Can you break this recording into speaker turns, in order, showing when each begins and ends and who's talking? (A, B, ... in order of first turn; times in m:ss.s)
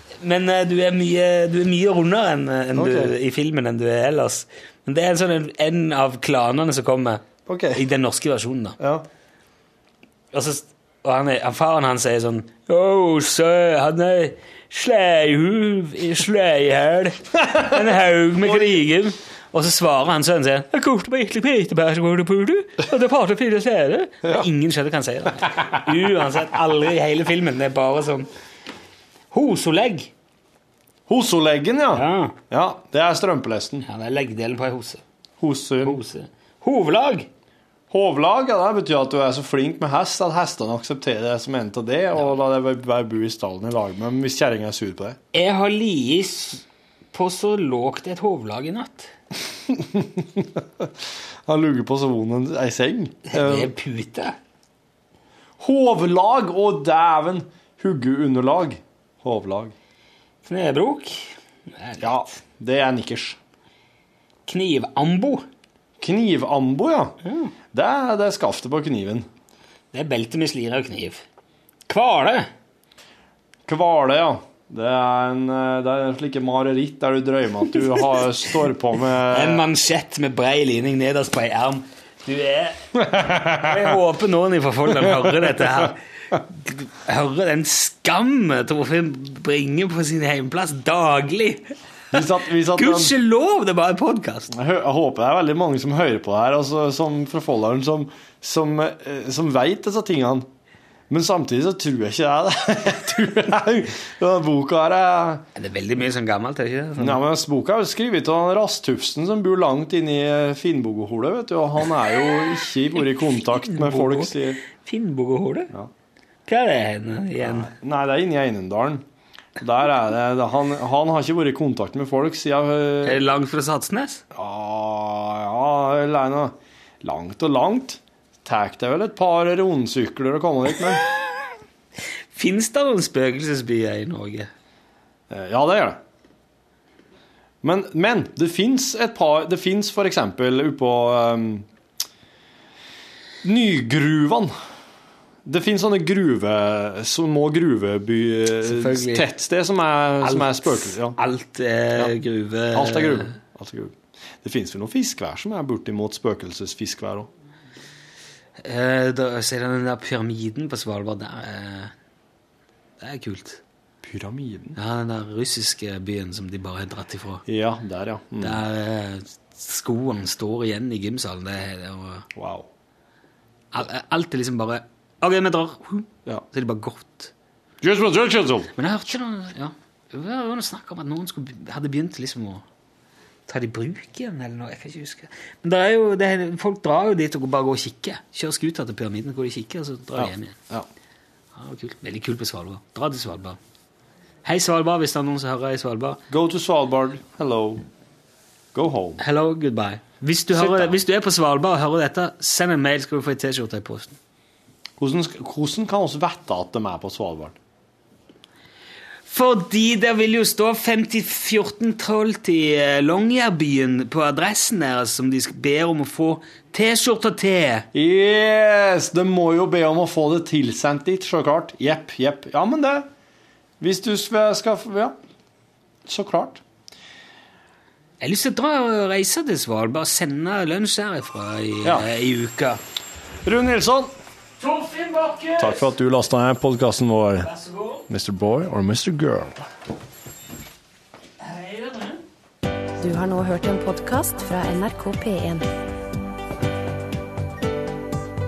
0:00.2-0:08.8 A
0:02.8-0:03.1 B
0:07.5-0:07.8 B
0:08.8-0:09.0 B
0:10.3-0:28.3 A
0:17.5-0:17.8 B
0:18.4-0:18.8 B
0:29.3-0:30.1 A
0:31.1-0:33.9 B
0:32.0-0:32.4 A
0:33.8-0:35.0 A
0:35.4-0:36.0 B
0:35.8-0:37.3 A
0:37.9-0:45.2 B
0:45.3-0:49.1 A
0:49.7-0:50.9 B
0:51.5-0:53.7 B
0:53.3-0:54.4 A
0:55.6-0:59.7 B
1:00.4-1:02.3 A
1:02.0-1:03.4 B
1:04.5-1:05.4 A
1:06.0-1:07.2 B
1:07.2-1:07.5 A
1:07.7-1:09.3 B
1:09.9-1:11.2 A
1:11.9-1:12.5 A
1:13.7-1:19.7 B
1:19.3-1:31.8 A
1:23.1-1:23.9 B
1:25.0-1:25.4 B
1:32.1-1:33.2 B
1:32.7-1:34.5 A
1:34.5-1:40.5 B
1:41.1-1:45.4 B
1:45.6-1:47.2 A
1:47.0-1:54.6 B
1:53.2-1:55.7 A
1:56.5-1:57.7 A
1:57.4-1:59.0 B
1:59.6-2:03.2 B
2:03.0-2:04.2 A
2:04.3-2:11.0 B
2:11.0-2:11.4 A
2:12.3-2:14.5 A
2:15.3-2:16.0 B
2:17.6-2:21.7 B
2:23.4-2:24.5 B
2:25.4-2:31.2 B
2:28.6-2:29.3 A
2:30.2-2:33.4 A
2:32.7-2:37.3 B
2:38.6-2:41.9 A
2:43.0-2:43.6 A
2:44.0-2:44.8 B
2:44.8-2:47.4 A
2:47.5-2:48.6 B
2:48.4-2:52.3 A
2:52.4-2:52.7 B
2:53.7-2:57.3 A
2:57.8-2:58.7 B
2:58.8-3:02.6 A
3:03.5-3:10.6 A
3:10.2-3:10.9 B
3:11.6-3:13.6 A
3:14.4-3:16.2 A
3:16.3-3:17.8 B
3:18.7-3:19.2 B
3:19.2-3:24.2 A
3:20.5-3:21.0 B
3:25.0-3:27.6 B
3:29.3-3:37.9 A
3:37.9-3:43.1 B
3:43.8-3:45.2 B
3:46.0-3:46.6 B
3:48.2-3:52.8 A
3:51.8-3:52.1 B
3:53.4-3:54.1 B
3:54.6-3:55.9 A
3:55.6-3:57.5 B
3:57.4-3:58.1 A
3:58.1-3:59.7 B
4:01.4-4:02.2 A
4:03.0-4:05.6 C